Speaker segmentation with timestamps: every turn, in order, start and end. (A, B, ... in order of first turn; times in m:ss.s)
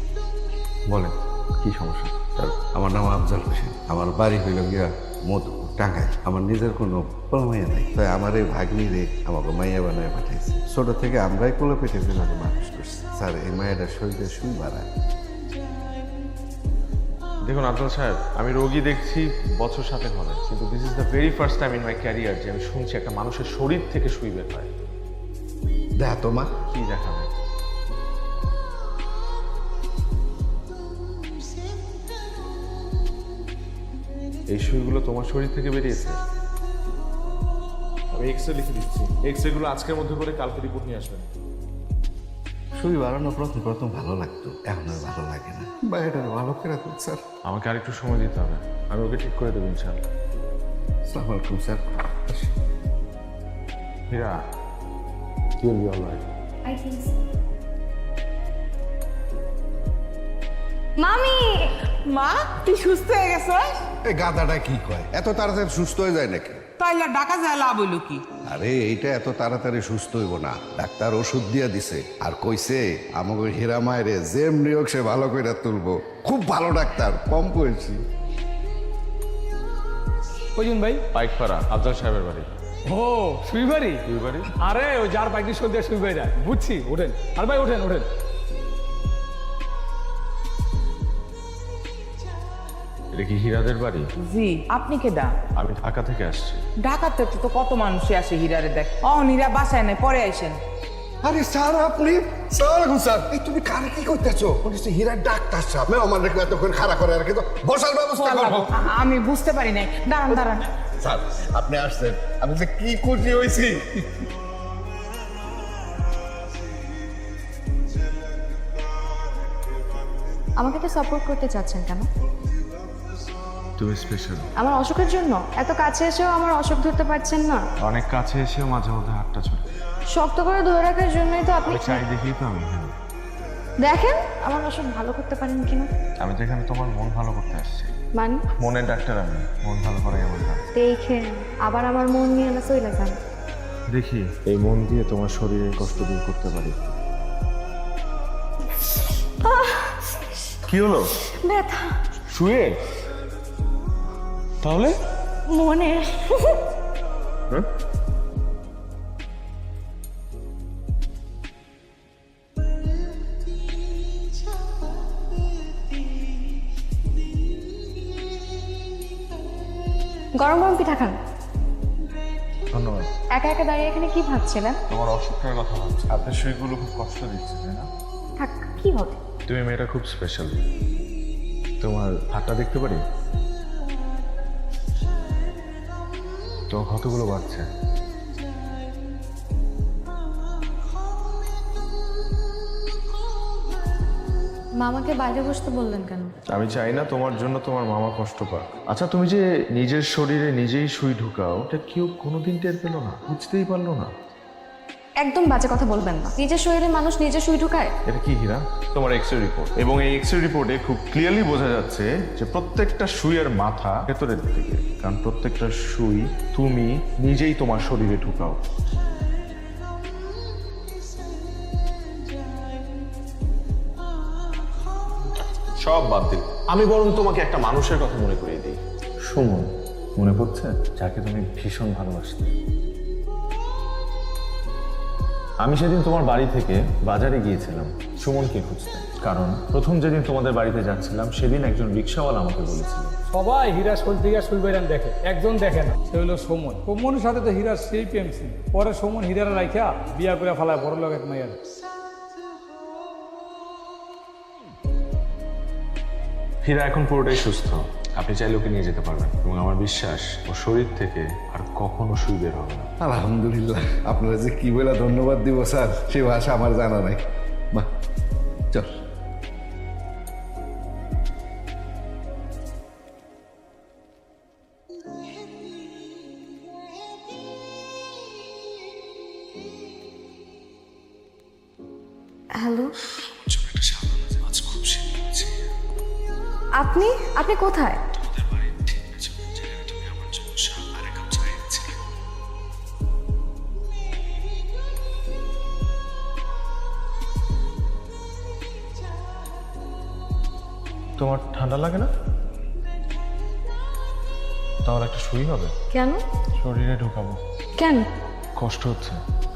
0:00.9-0:02.6 A
0:02.6-0:14.8 B
0:17.4-0:24.7 A
0:26.0-0:26.5 B
0:26.7-0:27.3 A
0:34.5-0:36.2 A
0:38.1-0:41.3 A
0:42.8-0:47.2 B
0:47.4-0:50.0 A
0:51.1-0:52.5 B
0:54.1-0:54.3 A
0:55.6-0:56.2 A
0:56.6-0:57.1 C
1:01.0-1:01.8 C
1:02.0-1:03.8 D
1:04.1-1:06.6 B
1:06.8-1:08.2 D
1:08.4-1:18.0 B
1:20.5-1:21.0 E
1:21.1-1:22.5 A
1:22.9-1:24.0 E
1:24.0-1:24.5 A
1:24.6-1:28.1 E
1:33.1-1:34.1 A
1:34.2-1:35.3 D
1:35.5-1:36.6 A
1:36.8-1:40.6 D
1:41.2-1:48.7 B
1:48.2-1:50.7 D
1:51.0-1:54.2 B
2:00.6-2:02.1 C
2:03.8-2:04.5 A
2:04.6-2:07.6 C
2:07.8-2:09.6 A
2:10.1-2:12.0 C
2:11.6-2:13.0 A
2:13.8-2:15.9 C
2:16.2-2:17.9 A
2:18.1-2:18.4 C
2:18.5-2:20.6 A
2:20.7-2:23.2 C
2:23.9-2:26.9 A
2:29.4-2:30.2 C
2:30.6-2:31.2 A
2:31.2-2:31.9 C
2:32.3-2:32.8 A
2:34.6-2:35.0 A
2:35.5-2:36.6 C
2:50.3-2:51.2 C
2:52.7-2:53.1 A
2:53.3-2:54.8 C
2:54.9-2:57.9 A
2:58.4-2:59.2 C
2:59.4-3:00.6 A
3:01.8-3:03.0 A
3:06.7-3:07.6 A
3:14.8-3:16.3 C
3:16.5-3:24.1 A
3:25.2-3:27.9 C
3:28.0-3:38.6 A
3:45.8-3:52.5 A
3:55.6-4:03.1 A
4:03.3-4:11.6 E
4:16.6-4:22.9 A
4:23.0-4:27.2 B
4:42.5-4:42.9 C
4:43.1-4:45.6 A
4:46.8-4:48.0 C
4:48.1-4:52.0 A
5:01.2-5:02.1 A
5:04.8-5:05.7 A
5:05.9-5:06.2 C
5:06.6-5:07.4 A
5:07.8-5:08.0 C
5:08.6-5:09.2 A